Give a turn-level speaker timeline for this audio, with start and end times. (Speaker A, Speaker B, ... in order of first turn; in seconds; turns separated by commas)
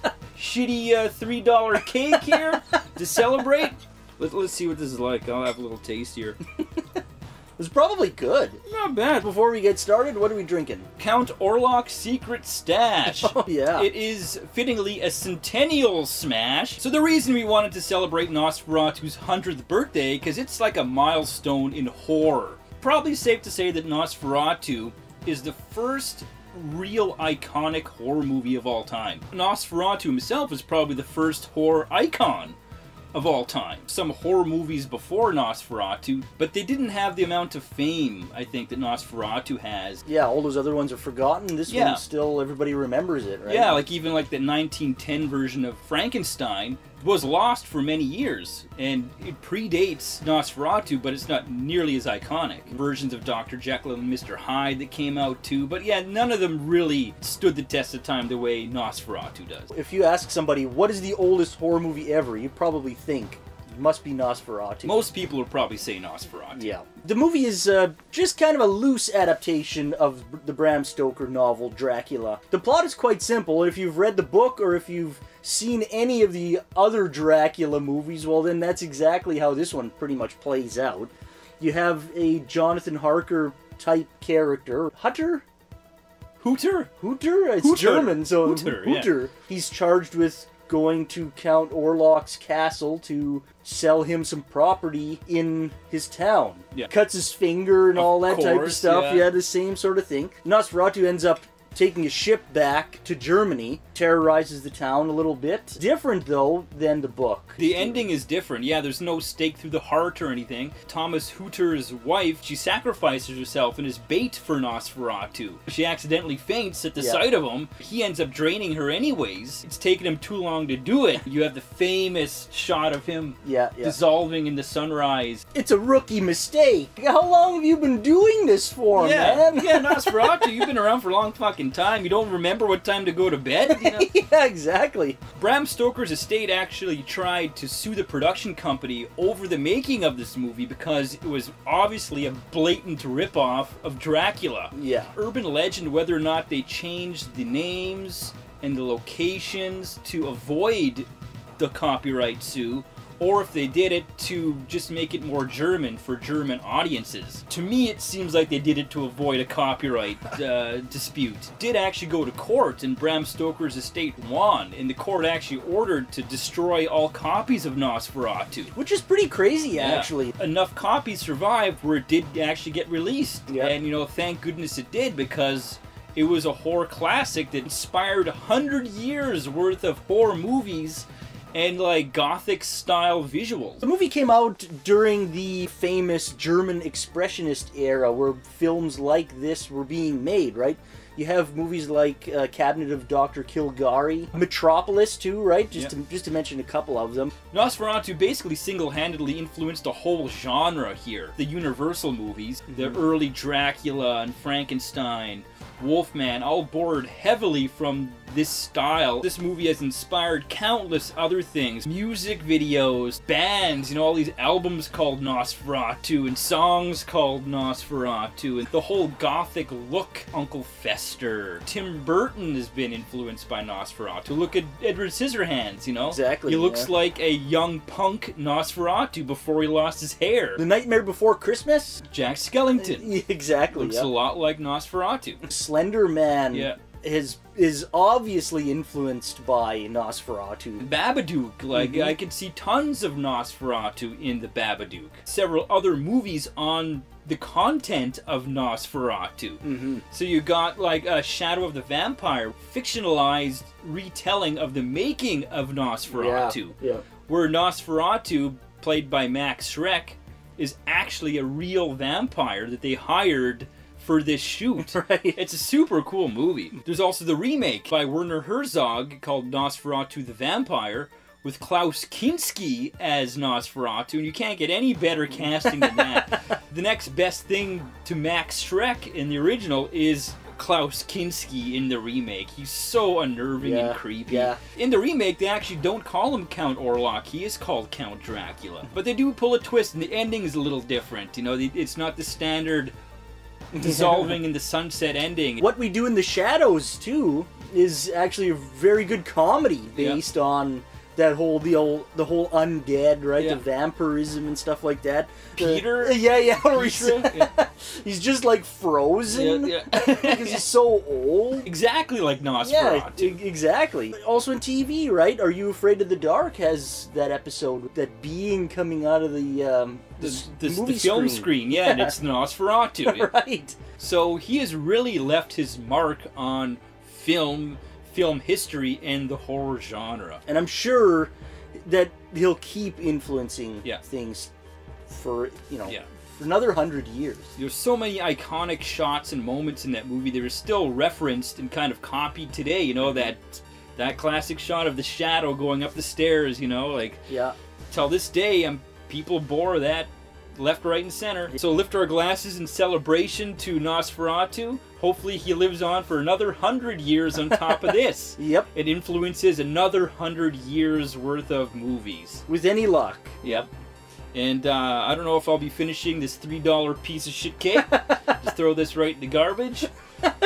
Speaker A: 0.3-6.4, Speaker B: 7.6-8.6, Speaker A: 8.6-9.3, Speaker B: 9.2-10.9, Speaker A: 11.0-32.6, Speaker B: 13.0-13.9, Speaker A: 33.1-40.0, Speaker B: 40.0-43.8, Speaker A: 41.7-42.0, Speaker A: 43.5-59.7, Speaker B: 59.7-65.0, Speaker A: 64.8-66.7, Speaker B: 66.5-85.4, Speaker A: 86.4-86.9, Speaker B: 87.0-108.1, Speaker A: 87.6-89.1, Speaker A: 97.9-99.3, Speaker A: 107.6-125.4, Speaker B: 123.4-124.0, Speaker B: 125.5-130.7, Speaker A: 128.9-134.1, Speaker B: 133.7-135.2, Speaker A: 135.3-151.1, Speaker B: 144.7-145.1, Speaker A: 151.6-168.7, Speaker B: 168.7-170.3, Speaker A: 169.7-183.8, Speaker B: 173.5-173.7, Speaker B: 183.8-197.3, Speaker A: 197.5-230.6, Speaker B: 202.7-203.0, Speaker B: 226.0-226.9, Speaker B: 230.6-232.1, Speaker A: 232.1-233.1, Speaker B: 232.8-234.1, Speaker A: 233.7-235.4, Speaker B: 235.4-240.9, Speaker A: 236.5-236.8, Speaker A: 240.8-292.9, Speaker B: 241.7-242.1, Speaker B: 249.6-250.0, Speaker B: 256.1-257.0, Speaker B: 264.8-265.4, Speaker B: 275.7-276.0, Speaker B: 283.6-284.6, Speaker B: 293.7-294.4, Speaker A: 293.8-295.6, Speaker B: 295.6-311.7, Speaker A: 299.9-300.2, Speaker A: 303.4-303.6, Speaker A: 305.6-307.5, Speaker A: 309.3-310.7, Speaker A: 311.6-313.4, Speaker B: 312.6-322.2, Speaker A: 320.2-323.3, Speaker B: 323.0-323.8, Speaker A: 324.0-330.4, Speaker B: 330.5-331.3, Speaker B: 331.8-334.5, Speaker B: 335.1-337.5, Speaker A: 337.6-347.3, Speaker B: 343.0-343.3, Speaker B: 347.3-347.5, Speaker A: 347.9-362.4, Speaker B: 357.5-357.8, Speaker B: 358.4-358.7, Speaker B: 362.5-363.4, Speaker A: 363.4-363.7, Speaker A: 364.3-369.9, Speaker B: 367.8-368.4